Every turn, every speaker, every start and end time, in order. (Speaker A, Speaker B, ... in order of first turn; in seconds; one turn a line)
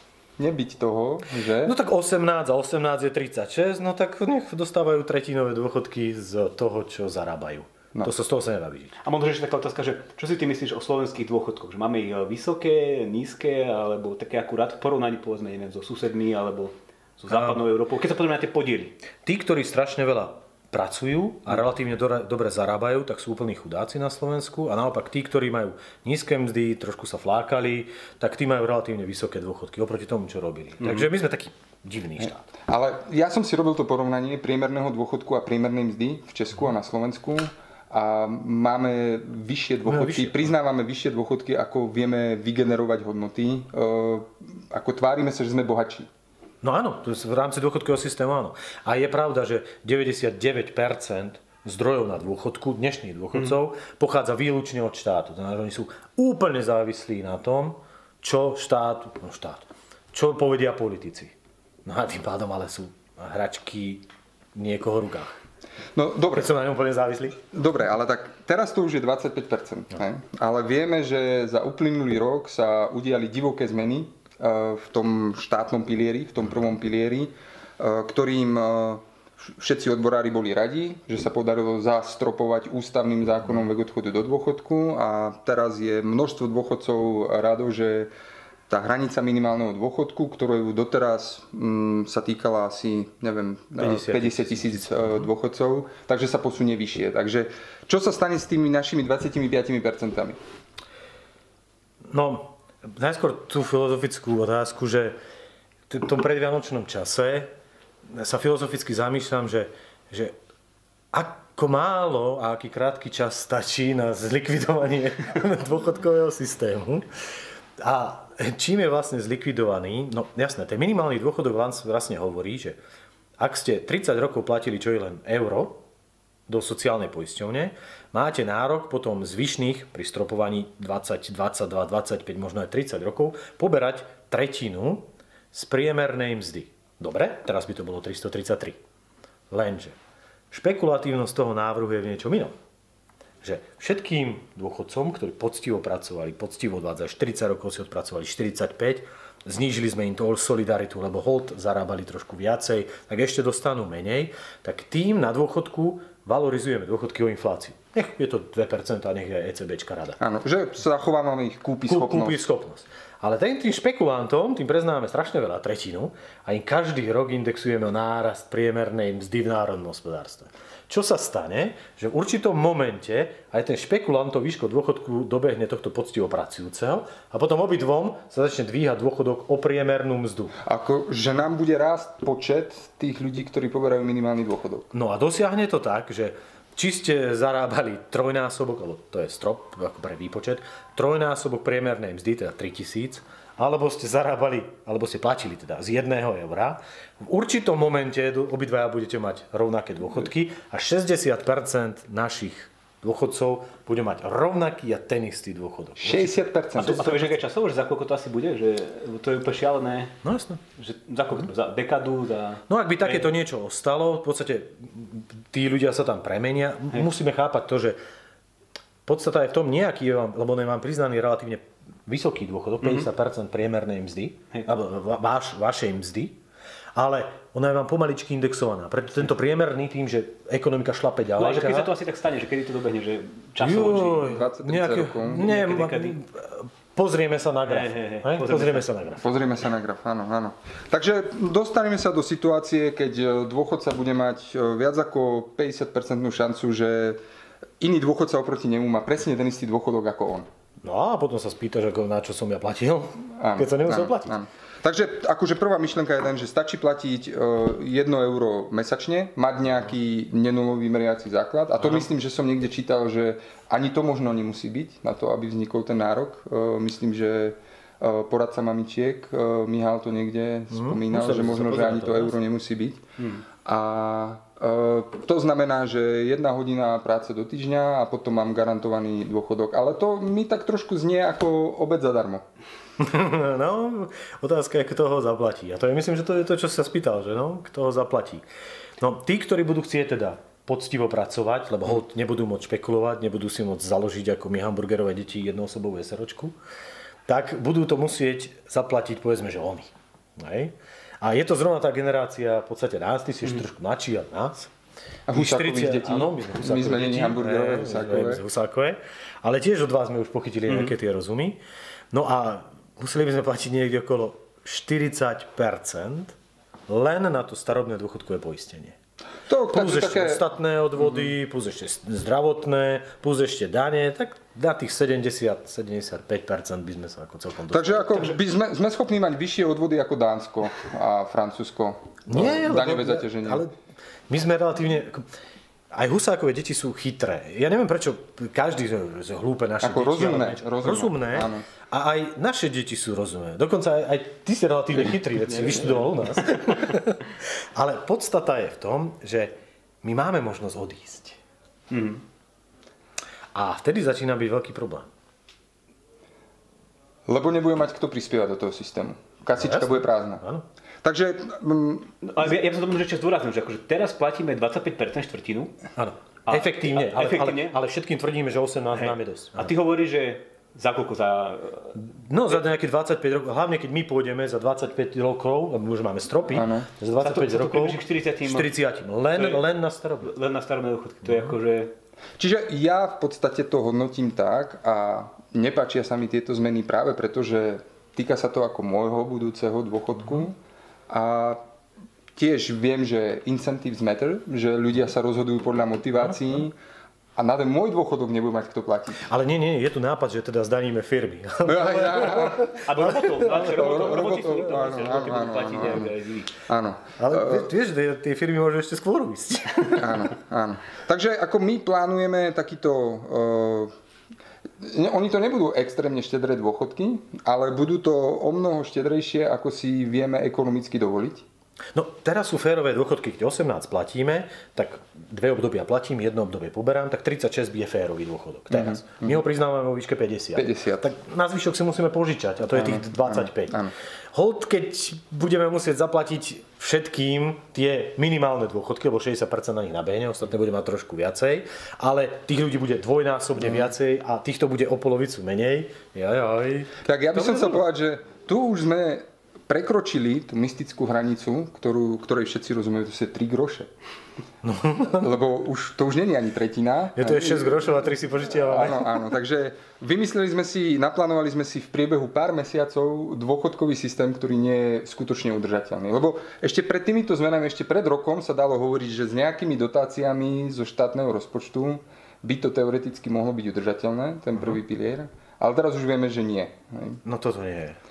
Speaker A: 0.4-1.7
Speaker B: 1.6-8.9
Speaker C: 9.0-19.0
Speaker B: 17.3-17.6
Speaker B: 19.2-32.5
Speaker C: 30.8-31.1
Speaker A: 32.7-46.1
Speaker B: 39.9-40.5
Speaker B: 46.6-61.3
Speaker B: 61.8-64.0
Speaker B: 64.5-65.4
Speaker A: 65.9-66.5
Speaker B: 66.3-67.4
Speaker A: 67.5-88.1
Speaker A: 88.7-100.4
Speaker B: 93.8-95.3
Speaker B: 102.1-105.2
Speaker B: 105.9-107.5
Speaker B: 108.1-110.3
Speaker B: 111.1-117.1
Speaker B: 117.8-122.8
Speaker B: 123.4-125.8
Speaker B: 126.5-138.8
Speaker B: 139.5-139.9
Speaker B: 140.5-142.5
Speaker B: 143.4-160.2
Speaker A: 160.2-162.4
Speaker B: 161.9-180.5
Speaker A: 180.6-184.9
Speaker B: 184.9-206.9
Speaker A: 206.0-207.3
Speaker C: 206.8-210.2
Speaker B: 210.2-210.6
Speaker C: 210.8-213.3
Speaker B: 212.7-218.0
Speaker B: 219.1-226.4
Speaker C: 222.8-223.1
Speaker B: 226.9-231.9
Speaker C: 231.4-234.3
Speaker B: 233.6-239.2
Speaker A: 233.8-235.5
Speaker C: 235.3-236.2
Speaker C: 237.7-238.9
Speaker A: 239.2-247.2
Speaker A: 247.8-250.5
Speaker B: 250.8-254.4
Speaker A: 253.4-273.0
Speaker B: 270.7-272.3
Speaker A: 273.6-282.4
Speaker B: 283.0-288.4
Speaker B: 289.0-296.6
Speaker B: 297.3-304.7
Speaker A: 305.3-308.4
Speaker B: 305.3-311.6
Speaker B: 312.1-316.3
Speaker B: 316.9-319.0
Speaker A: 319.5-320.4
Speaker B: 319.7-328.4
Speaker A: 327.7-333.7
Speaker B: 332.3-333.7
Speaker B: 334.3-335.3
Speaker B: 335.9-351.4
Speaker A: 339.8-341.6
Speaker C: 345.5-346.9
Speaker C: 351.9-352.2
Speaker B: 353.5-355.1
Speaker A: 357.3-360.4
Speaker B: 359.6-360.6
Speaker A: 361.0-362.1
Speaker C: 362.2-365.7
Speaker B: 365.9-369.7
Speaker C: 366.5-367.8
Speaker C: 368.9-372.0
Speaker B: 371.9-380.3
Speaker A: 376.5-376.9
Speaker C: 377.2-378.7
Speaker C: 379.3-379.6
Speaker C: 380.2-381.9
Speaker A: 382.4-390.6
Speaker A: 391.1-391.6
Speaker A: 392.4-396.7
Speaker A: 397.4-399.3
Speaker B: 399.2-403.9
Speaker A: 401.6-402.8
Speaker C: 402.8-406.5
Speaker A: 403.4-406.1
Speaker A: 406.7-407.7
Speaker B: 407.2-410.3
Speaker A: 409.9-413.9
Speaker A: 414.8-421.4
Speaker B: 421.9-433.8
Speaker A: 428.7-429.4
Speaker A: 430.5-431.1
Speaker A: 432.7-433.9
Speaker B: 434.3-447.8
Speaker A: 447.0-453.9
Speaker B: 454.6-455.3
Speaker A: 455.2-477.2
Speaker B: 457.1-459.1
Speaker B: 477.2-478.0